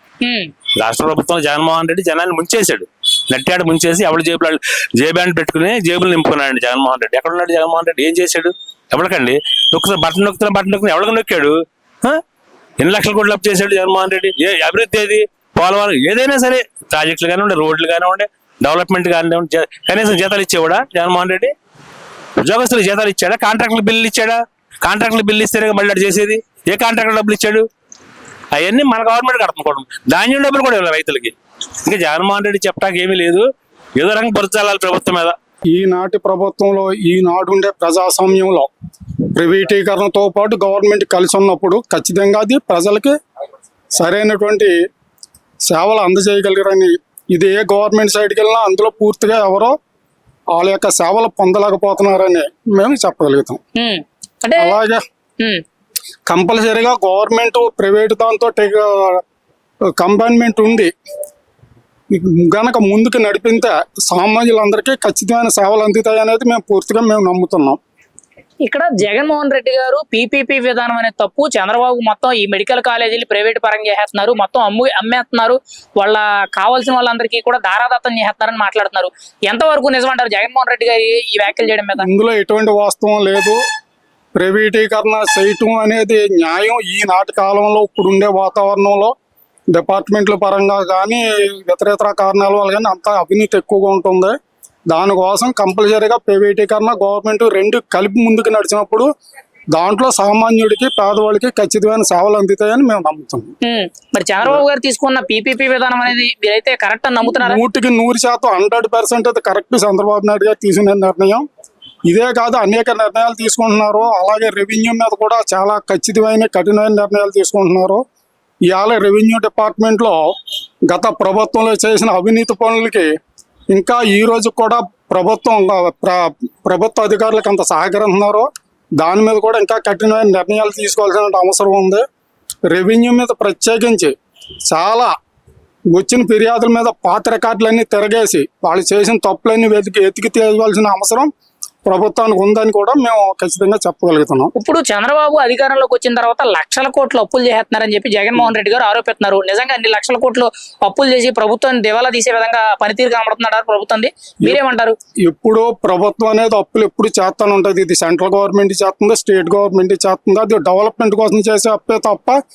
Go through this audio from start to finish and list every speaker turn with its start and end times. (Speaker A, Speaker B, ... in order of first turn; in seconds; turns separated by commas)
Speaker A: 0.2-0.5, Speaker B: 0.8-12.2, Speaker B: 12.8-21.5, Speaker B: 22.4-27.6, Speaker B: 28.5-35.4, Speaker C: 35.7-38.7, Speaker C: 39.4-43.1, Speaker C: 44.0-44.7, Speaker C: 45.6-49.7, Speaker C: 50.5-53.6, Speaker A: 53.8-54.8, Speaker C: 54.6-55.0, Speaker C: 56.3-59.2, Speaker C: 60.0-60.9, Speaker C: 62.1-67.8, Speaker A: 68.6-82.1, Speaker C: 82.0-83.6, Speaker C: 84.3-89.1, Speaker C: 89.7-94.3, Speaker C: 94.9-99.1, Speaker C: 99.7-103.5, Speaker A: 103.6-107.6, Speaker C: 107.2-111.5, Speaker C: 112.0-118.0, Speaker C: 118.7-120.3, Speaker C: 120.9-123.1, Speaker C: 123.7-128.5, Speaker C: 129.0-132.0, Speaker C: 132.7-134.1, Speaker C: 134.7-135.1, Speaker C: 135.9-141.3, Speaker C: 141.8-144.5, Speaker A: 144.6-154.9, Speaker C: 155.2-162.4